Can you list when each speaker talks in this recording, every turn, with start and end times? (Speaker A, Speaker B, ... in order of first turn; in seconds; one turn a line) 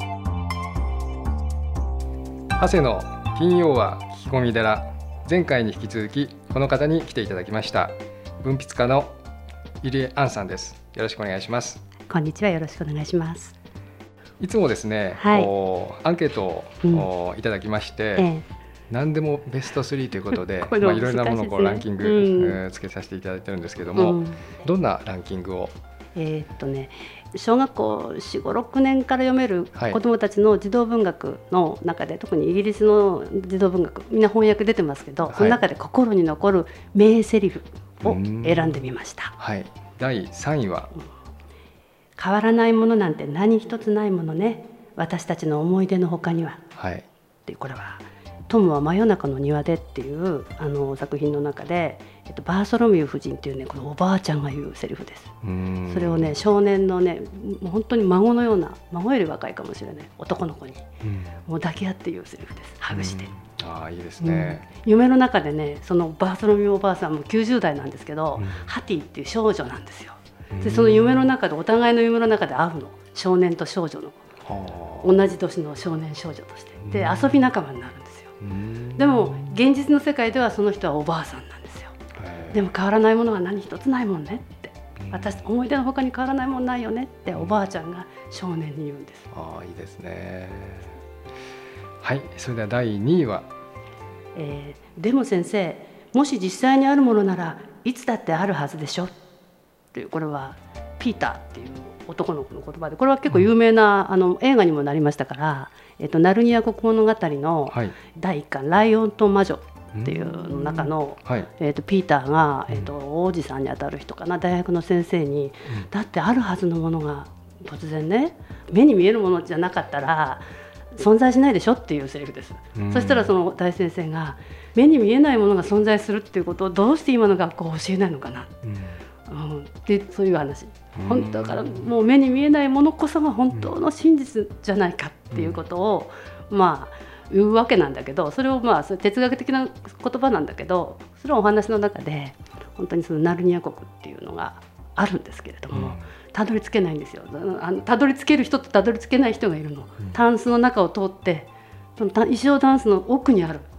Speaker A: 2.6-9.2
Speaker A: 9.8-11.8
Speaker B: 12.1-13.6
Speaker A: 14.4-18.3
Speaker B: 15.2-15.5
Speaker B: 18.2-18.4
Speaker A: 18.9-25.7
Speaker B: 20.5-22.6
Speaker B: 23.9-24.4
Speaker B: 26.1-39.4
Speaker A: 35.3-35.6
Speaker A: 38.0-40.9
Speaker B: 42.2-46.6
Speaker A: 46.8-47.1
Speaker B: 47.5-55.3
Speaker A: 55.4-56.4
Speaker B: 55.9-60.9
Speaker A: 61.0-61.4
Speaker B: 61.5-63.3
Speaker A: 62.9-64.7
Speaker B: 64.2-74.2
Speaker A: 68.4-68.7
Speaker A: 70.5-71.3
Speaker A: 74.5-75.2
Speaker B: 75.0-78.3
Speaker A: 76.8-77.5
Speaker A: 78.4-79.5
Speaker B: 79.0-82.0
Speaker A: 82.2-82.7
Speaker B: 82.5-89.3
Speaker A: 85.0-85.4
Speaker A: 89.3-91.0
Speaker A: 92.0-93.5
Speaker B: 94.3-99.2
Speaker B: 99.9-128.6
Speaker A: 107.7-108.0
Speaker A: 109.9-111.5
Speaker A: 112.7-112.9
Speaker A: 122.8-123.3
Speaker A: 128.6-129.0
Speaker B: 129.3-153.7
Speaker A: 130.9-131.9
Speaker A: 135.3-135.6
Speaker A: 145.7-146.1